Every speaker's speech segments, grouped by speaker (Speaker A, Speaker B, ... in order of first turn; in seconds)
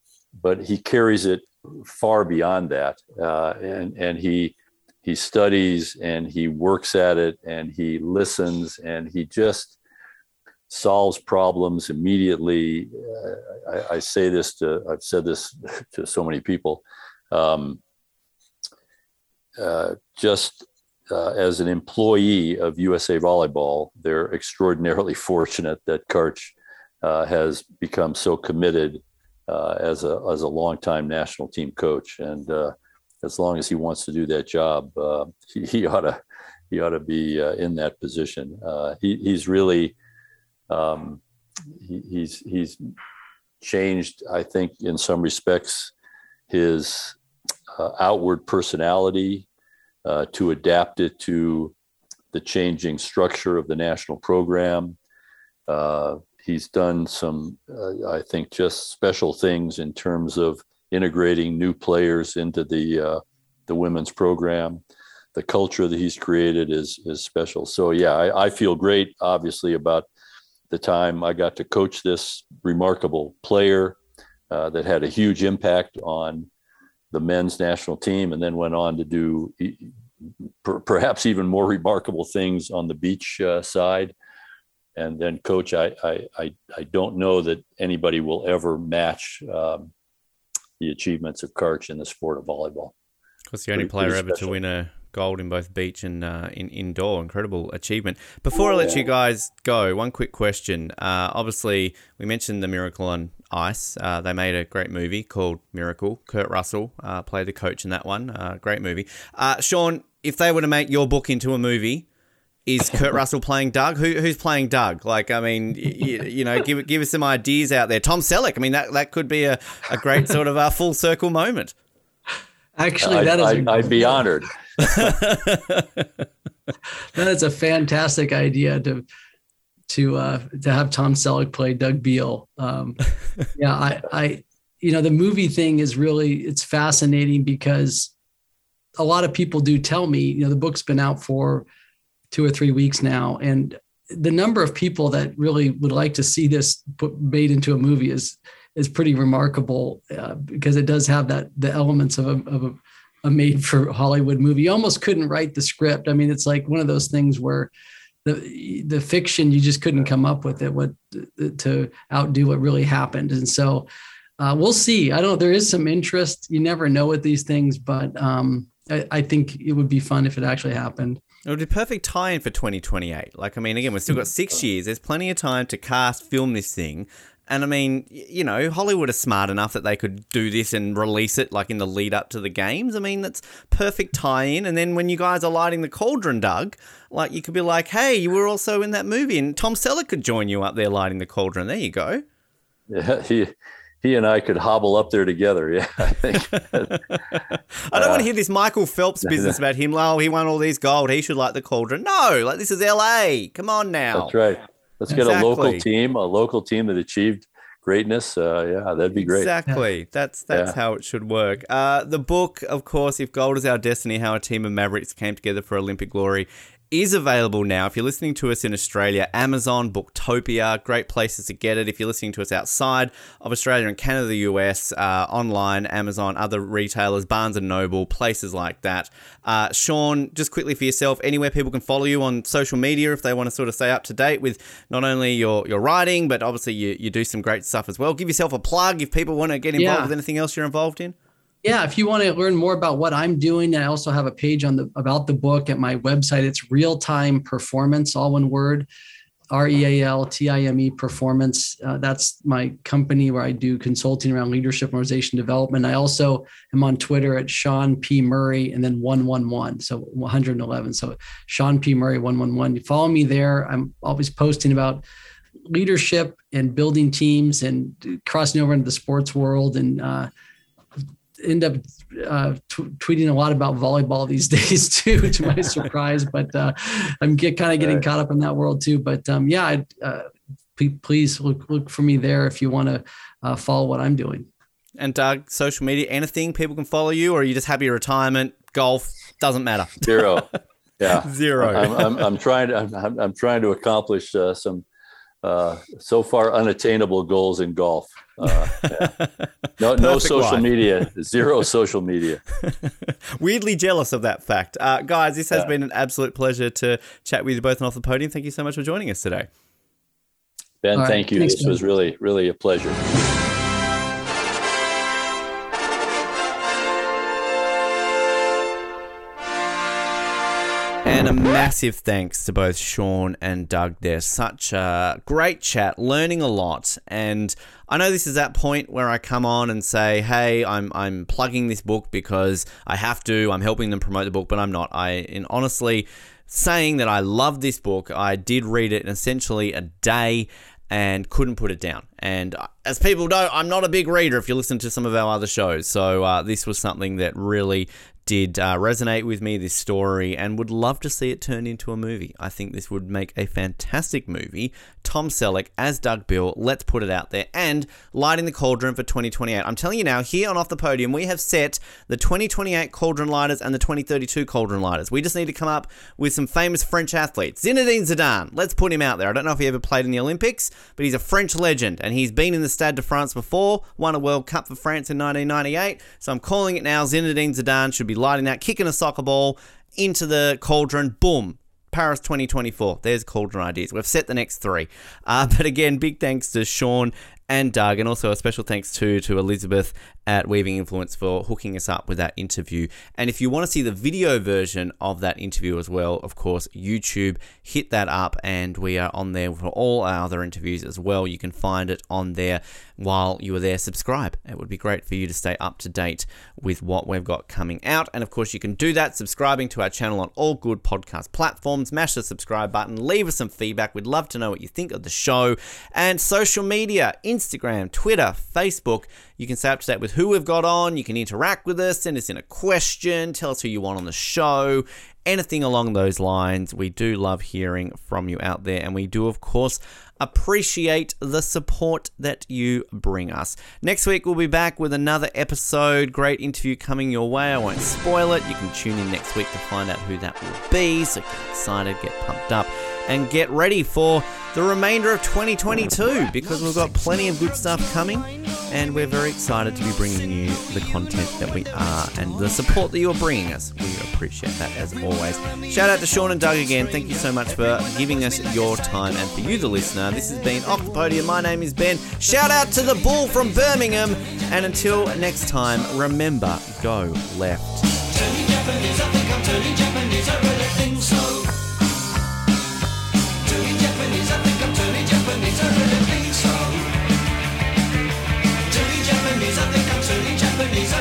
Speaker A: 0.3-9.8, 10.7-17.8, 19.6-39.9, 40.7-41.2, 41.7-42.8, 43.6-45.9, 46.5-47.2, 47.7-49.5, 50.0-51.7, 52.3-55.0, 55.7-64.8, 65.3-70.1, 70.7-74.0, 74.5-76.5, 77.1-84.1, 85.0-89.9, 90.8-92.9, 93.8-94.5, 123.0-125.1, 192.9-197.0, 197.9-198.3, 199.2-199.6, 204.1-209.5, 210.5-210.8, 290.0-294.8, 295.4-299.1, 299.8-302.4, 310.8-313.0
Speaker B: 93.5-112.0, 112.7-121.7, 124.8-126.0, 171.4-192.2, 197.8-204.3, 205.1-205.8, 209.2-241.1, 285.0-290.3, 291.2-292.3, 298.7-300.7, 302.6-309.5, 321.0-467.9, 469.3-471.4, 478.9-480.6
Speaker C: 122.8-124.2, 127.1-129.0, 129.9-133.0, 133.5-138.1, 139.0-141.7, 142.3-157.7, 158.2-163.9, 164.4-171.2, 239.8-240.1, 241.6-248.9, 249.5-265.0, 265.7-270.3, 271.4-284.5, 310.9-311.8